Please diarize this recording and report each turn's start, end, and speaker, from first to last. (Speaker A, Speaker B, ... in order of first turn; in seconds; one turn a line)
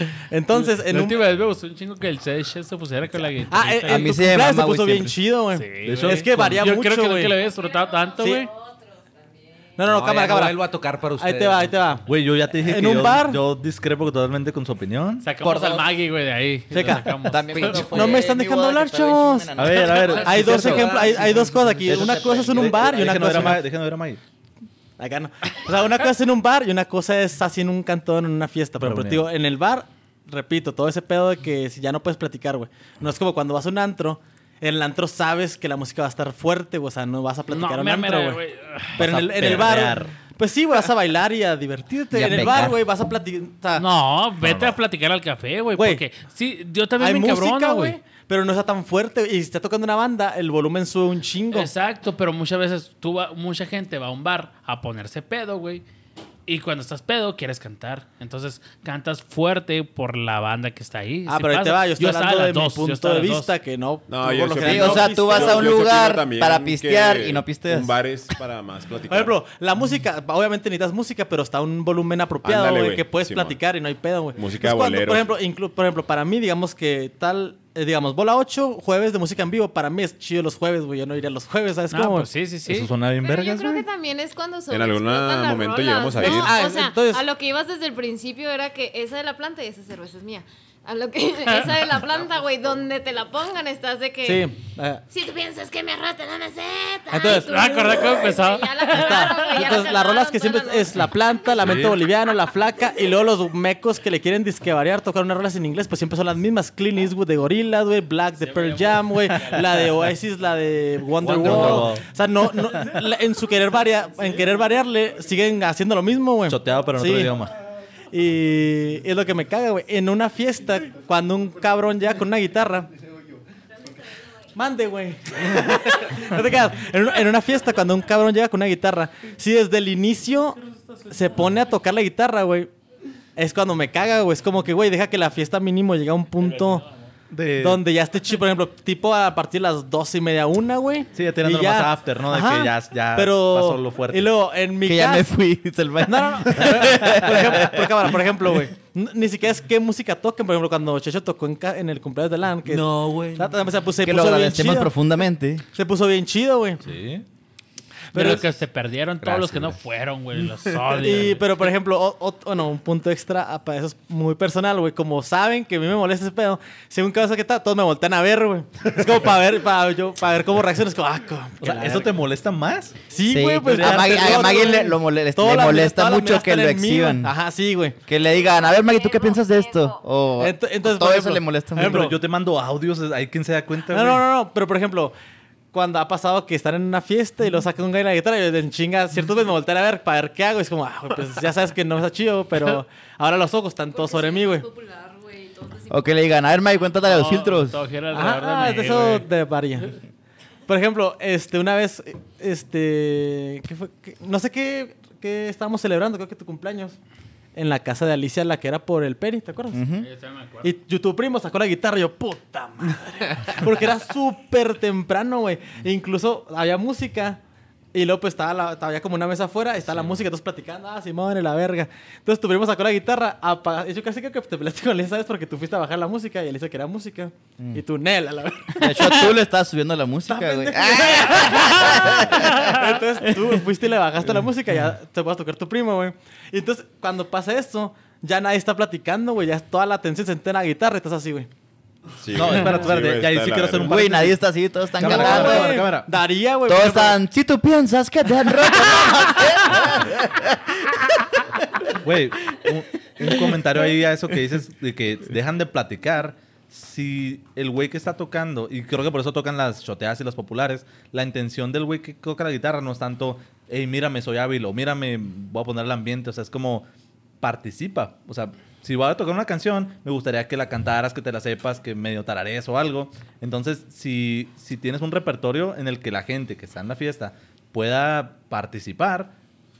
Speaker A: 0.3-1.2
Speaker B: 0.5-4.1
Speaker A: 3.5-7.4
Speaker C: 3.9-5.1
Speaker B: 5.5-8.5
Speaker D: 5.8-6.6
Speaker E: 7.5-9.7
Speaker A: 9.8-10.6
Speaker F: 9.9-11.9
Speaker A: 11.2-13.4
Speaker D: 12.1-15.2
Speaker B: 15.2-18.1
Speaker C: 15.4-15.9
Speaker A: 16.7-17.1
Speaker C: 17.2-21.0
Speaker F: 17.5-18.3
Speaker A: 17.8-23.6
Speaker D: 19.5-21.1
Speaker F: 20.0-21.2
Speaker C: 21.8-22.8
Speaker D: 21.9-24.2
Speaker A: 25.0-38.4
Speaker D: 28.8-29.3
Speaker B: 37.5-39.0
Speaker D: 39.0-40.1
Speaker A: 39.0-43.8
Speaker C: 42.1-42.8
Speaker B: 43.7-48.0
Speaker D: 44.4-44.8
Speaker A: 45.8-46.0
Speaker A: 47.0-51.7
Speaker B: 51.5-55.8
Speaker B: 56.5-63.5
Speaker A: 61.3-65.8
Speaker G: 64.1-69.3
Speaker C: 64.6-67.9
Speaker A: 69.1-82.3
Speaker G: 72.4-73.6
Speaker G: 74.3-75.3
Speaker B: 81.9-82.9
Speaker D: 82.7-83.9
Speaker E: 83.2-101.6
Speaker G: 84.7-86.5
Speaker A: 86.2-87.2
Speaker A: 94.2-95.0
Speaker A: 97.1-98.0
Speaker B: 97.3-99.5
Speaker A: 98.9-117.4
Speaker B: 108.4-109.6
Speaker D: 111.2-112.1
Speaker D: 116.5-117.5
Speaker A: 118.1-122.9
Speaker A: 124.5-130.6
Speaker B: 130.8-131.1
Speaker A: 131.1-132.7
Speaker A: 133.3-136.9
Speaker D: 137.3-137.8
Speaker A: 137.6-145.3
Speaker D: 141.1-144.3
Speaker C: 144.8-147.9
Speaker A: 146.0-154.9
Speaker F: 152.7-153.3
Speaker D: 152.9-153.4
Speaker C: 154.0-155.6
Speaker A: 155.7-156.8
Speaker D: 156.8-157.2
Speaker A: 158.1-158.5
Speaker B: 158.1-161.4
Speaker F: 159.2-159.8
Speaker A: 161.0-172.1
Speaker D: 171.6-173.0
Speaker A: 173.1-178.0
Speaker C: 173.2-177.3
Speaker D: 173.7-174.7
Speaker C: 178.1-182.1
Speaker E: 178.2-180.0
Speaker A: 180.4-182.2
Speaker D: 181.8-184.2
Speaker A: 183.9-185.1
Speaker A: 185.7-194.7
Speaker E: 193.9-196.2
Speaker C: 195.9-197.8
Speaker B: 197.0-199.3
Speaker A: 198.1-200.0
Speaker A: 200.7-207.0
Speaker A: 207.5-209.8
Speaker C: 209.7-210.1
Speaker B: 210.0-210.7
Speaker A: 210.6-217.4
Speaker A: 217.9-229.4
Speaker C: 228.8-232.7
Speaker A: 230.3-241.5
Speaker G: 242.2-244.0
Speaker D: 242.3-244.4
Speaker C: 243.8-245.9
Speaker D: 244.9-246.1
Speaker A: 245.0-247.2
Speaker C: 246.7-251.6
Speaker D: 252.0-266.9
Speaker D: 267.4-279.3